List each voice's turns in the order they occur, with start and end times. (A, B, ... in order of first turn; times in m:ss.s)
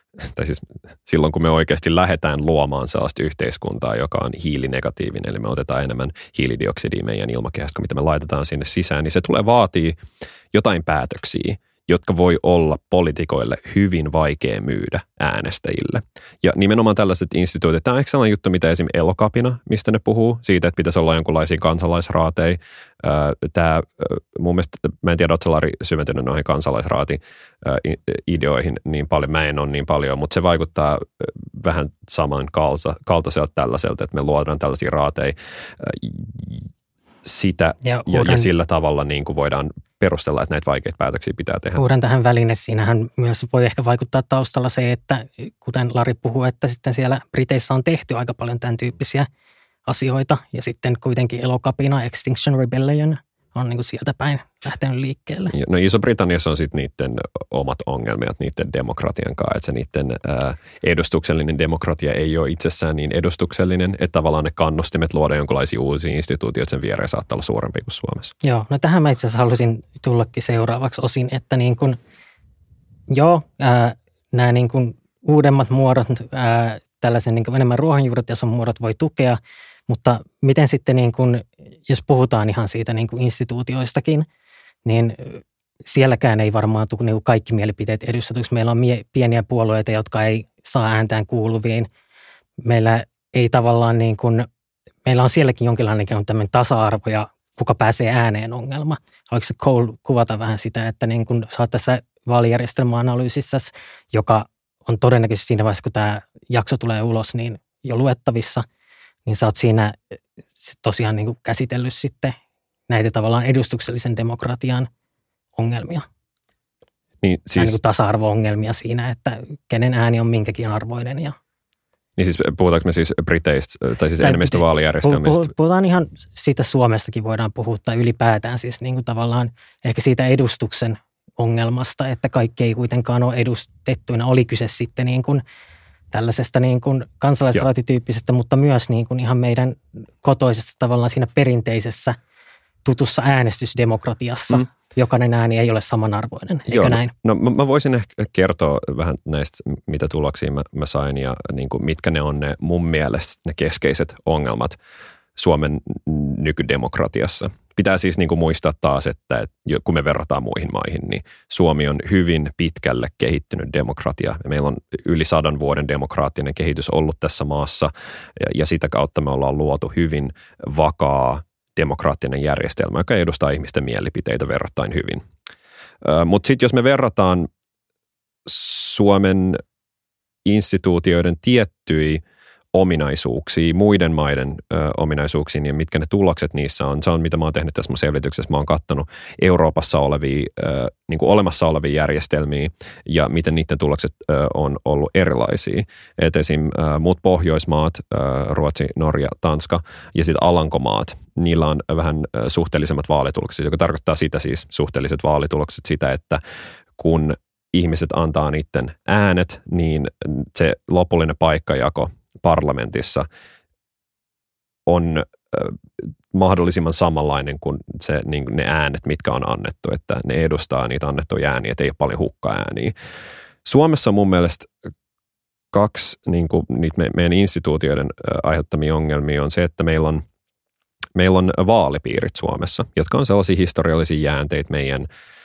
0:00.2-0:10.0 A
0:10.5-0:36.7 A
0:37.2-0:41.8 A
0:37.8-0:38.5 B
0:41.8-0:49.3 B
0:49.9-0:55.6 B
0:55.5-1:08.3 A
1:08.4-1:12.0 B
1:13.1-1:24.3 B
1:24.8-1:31.9 B
1:32.6-1:34.5 B
1:35.1-1:48.6 B
1:49.3-1:50.0 B
1:50.6-1:52.4 B
1:52.9-1:54.9 B
1:55.6-1:56.1 B
1:57.2-1:57.8 A
1:57.6-2:01.4 B
2:02.2-2:05.5 A
2:04.2-2:15.4 B
2:16.1-2:22.2 B
2:22.8-2:27.1 B
2:26.7-2:34.8 A
2:35.4-2:55.2 A
2:56.0-2:57.5 A
2:58.5-2:59.6 A
3:00.4-3:02.2 A
3:02.7-3:26.4 A
3:27.0-3:33.3 A
3:34.9-3:42.9 A
3:43.6-3:44.7 A
3:45.7-3:50.2 A
3:51.2-3:55.1 A